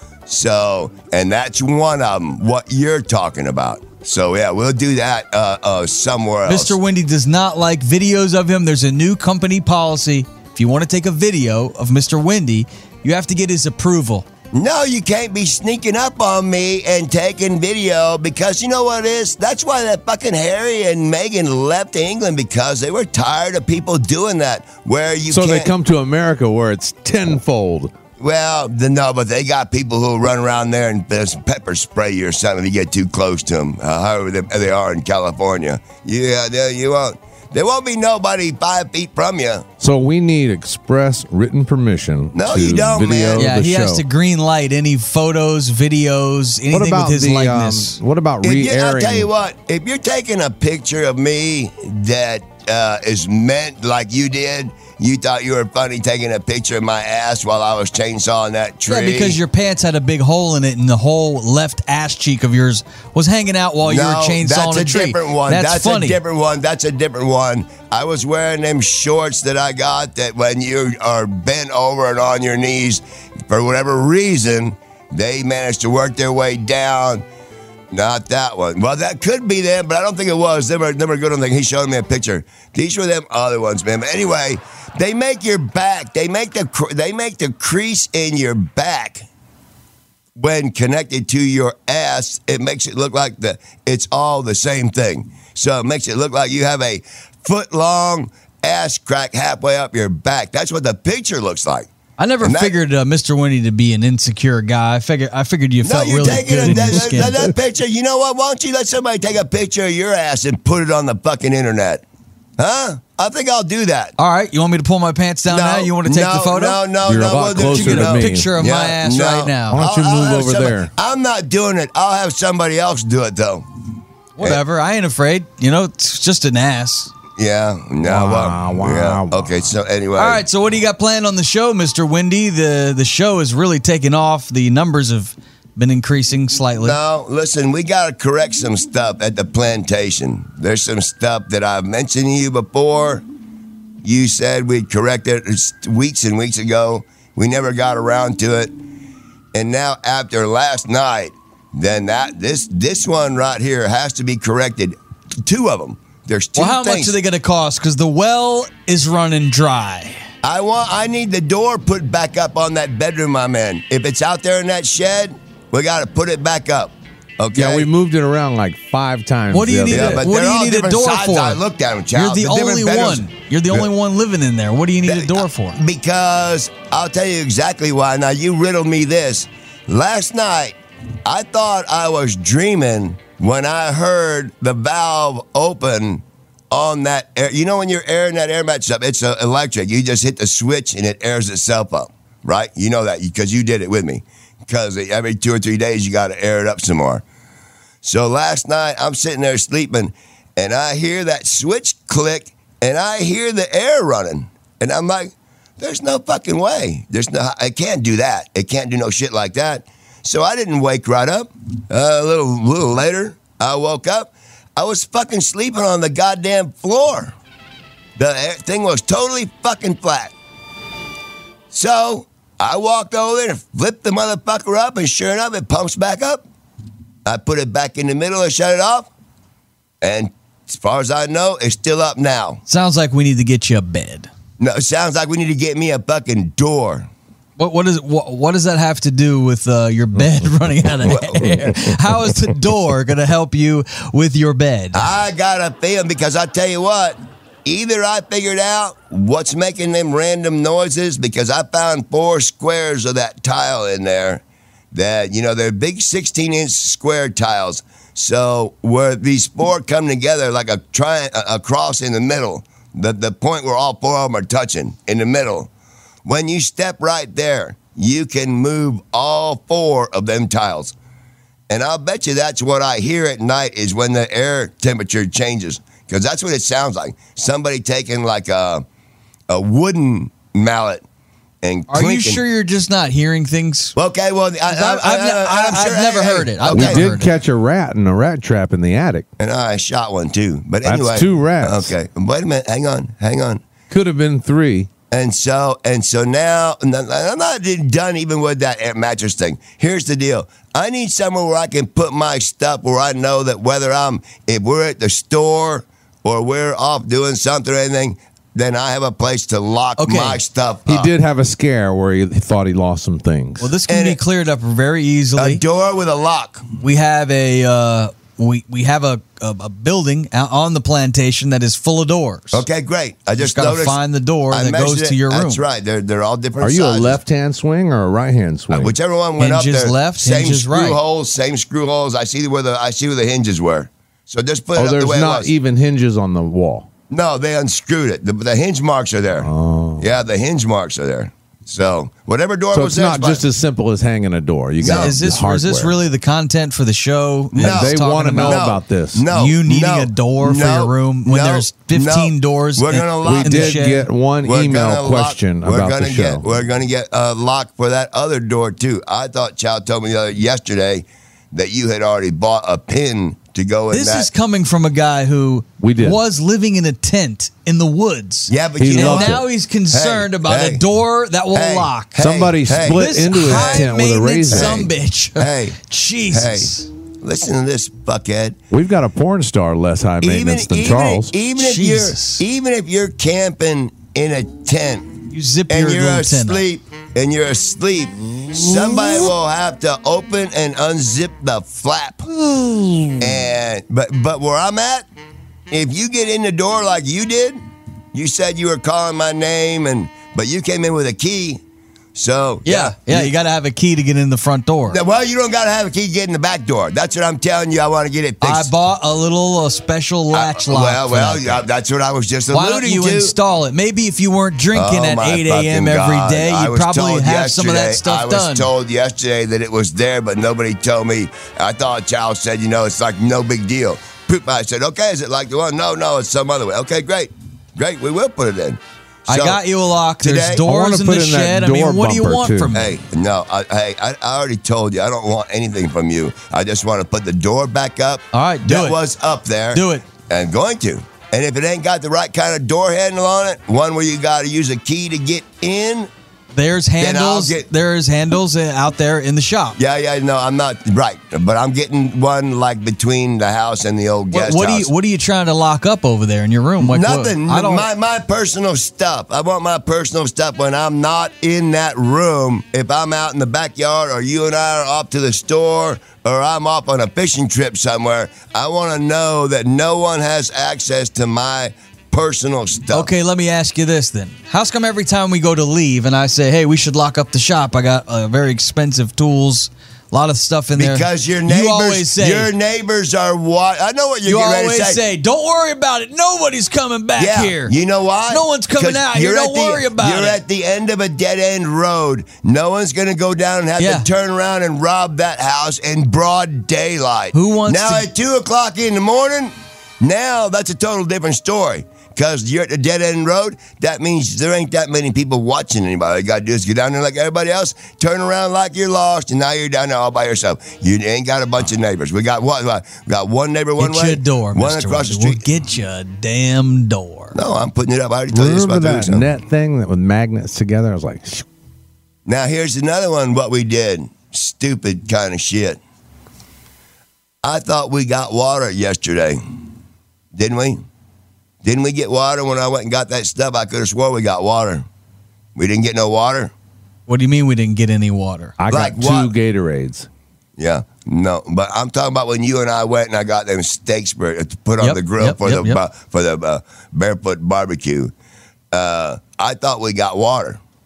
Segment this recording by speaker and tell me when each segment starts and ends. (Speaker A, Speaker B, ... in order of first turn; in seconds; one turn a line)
Speaker A: 0.3-6.8
Speaker B: 6.5-14.3
Speaker A: 14.5-25.7
Speaker C: 25.3-27.9
Speaker A: 28.2-39.6
Speaker C: 39.8-44.0
Speaker A: 42.3-43.5
Speaker B: 43.4-48.0
Speaker C: 46.7-49.3
Speaker A: 48.4-59.4
Speaker B: 58.9-66.2
Speaker A: 63.8-77.2
Speaker A: 77.9-89.2
Speaker A: 90.4-101.9
Speaker B: 102.2-107.4
Speaker A: 102.4-102.8
Speaker A: 105.8-112.0
Speaker A: 112.6-114.2
Speaker B: 114.2-116.9
Speaker A: 115.5-123.7
Speaker C: 117.0-118.5
Speaker B: 117.7-119.8
Speaker C: 119.7-120.9
Speaker B: 124.4-127.1
Speaker A: 127.4-130.4
Speaker C: 128.0-129.7
Speaker B: 130.2-137.0
Speaker A: 136.8-143.2
Speaker A: 144.0-148.8
Speaker A: 149.5-157.2
Speaker B: 156.6-160.2
Speaker A: 160.4-167.9
Speaker C: 167.5-170.2
Speaker B: 169.5-171.6
Speaker A: 169.9-173.9
Speaker B: 172.1-175.8
Speaker A: 175.1-197.2
Speaker A: 198.0-217.3
Speaker A: 218.2-220.3
Speaker A: 221.7-226.4
Speaker A: 227.2-229.1
Speaker A: 230.0-232.6
Speaker B: 232.7-234.3
Speaker A: 234.6-237.1
Speaker B: 237.6-245.0
Speaker A: 241.1-241.5
Speaker A: 244.9-265.7
Speaker A: 266.3-270.9
Speaker A: 271.7-278.9
Speaker A: 279.5-281.0
Speaker A: 281.6-282.4
Speaker B: 281.9-283.9
Speaker A: 283.9-287.1
Speaker B: 284.7-287.3
Speaker C: 286.7-289.3
Speaker A: 289.4-293.6
Speaker C: 290.8-291.9
Speaker C: 293.9-294.9
Speaker A: 295.1-311.1
Speaker B: 310.0-310.4
Speaker C: 310.9-313.7
Speaker B: 313.6-315.6
Speaker A: 313.9-314.2
Speaker A: 315.4-316.7
Speaker B: 316.8-322.6
Speaker A: 322.5-324.0
Speaker B: 323.4-325.6
Speaker A: 324.5-327.2
Speaker C: 326.6-329.0
Speaker A: 328.7-335.5
Speaker B: 329.4-331.0
Speaker C: 334.8-336.9
Speaker A: 337.1-343.4
Speaker C: 339.4-340.1
Speaker C: 342.7-346.0
Speaker A: 344.8-345.2
Speaker B: 344.8-348.7
Speaker A: 347.5-353.8
Speaker C: 347.6-349.3
Speaker B: 349.3-354.1
Speaker C: 353.2-356.5
Speaker A: 354.4-364.3
Speaker B: 363.9-372.2
Speaker C: 365.8-366.2
Speaker A: 368.5-370.8
Speaker C: 368.8-369.4
Speaker A: 371.5-373.9
Speaker C: 372.2-374.9
Speaker B: 372.7-376.9
Speaker A: 374.5-374.8
Speaker A: 375.4-375.8
Speaker A: 376.3-378.6
Speaker C: 378.7-381.3
Speaker A: 380.2-392.3
Speaker B: 381.6-382.4
Speaker B: 385.3-386.6
Speaker C: 392.6-393.2
Speaker A: 393.2-395.1
Speaker A: 395.7-397.6
Speaker A: 398.1-401.6
Speaker A: 402.1-403.3
Speaker B: 402.7-405.0
Speaker A: 404.9-408.7
Speaker B: 408.4-411.6
Speaker A: 410.3-413.4
Speaker B: 412.5-418.7
Speaker A: 414.7-429.6
Speaker B: 429.3-433.0
Speaker A: 430.2-430.6
Speaker C: 430.6-432.7
Speaker A: 432.7-446.1
Speaker B: 438.3-439.0
Speaker B: 439.7-440.1
Speaker B: 446.5-449.8
Speaker A: 447.0-447.7
Speaker A: 449.8-454.9
Speaker B: 454.3-457.9
Speaker A: 456.8-473.1
Speaker B: 472.9-482.5
Speaker A: 480.8-485.0
Speaker B: 484.3-487.8
Speaker A: 487.2-515.4
Speaker B: 488.3-490.4
Speaker B: 493.8-494.1
Speaker B: 497.3-498.1
Speaker B: 513.8-517.4
Speaker A: 517.3-519.3
Speaker C: 518.3-521.5
Speaker A: 522.3-525.8
Speaker A: 527.4-529.4
Speaker A: 530.3-530.8
Speaker A: 531.6-534.9
Speaker A: 535.5-536.5
Speaker B: 537.1-538.6
Speaker C: 538.6-540.1
Speaker A: 538.7-539.3
Speaker A: 540.6-548.1
Speaker B: 544.8-545.8
Speaker A: 548.7-550.6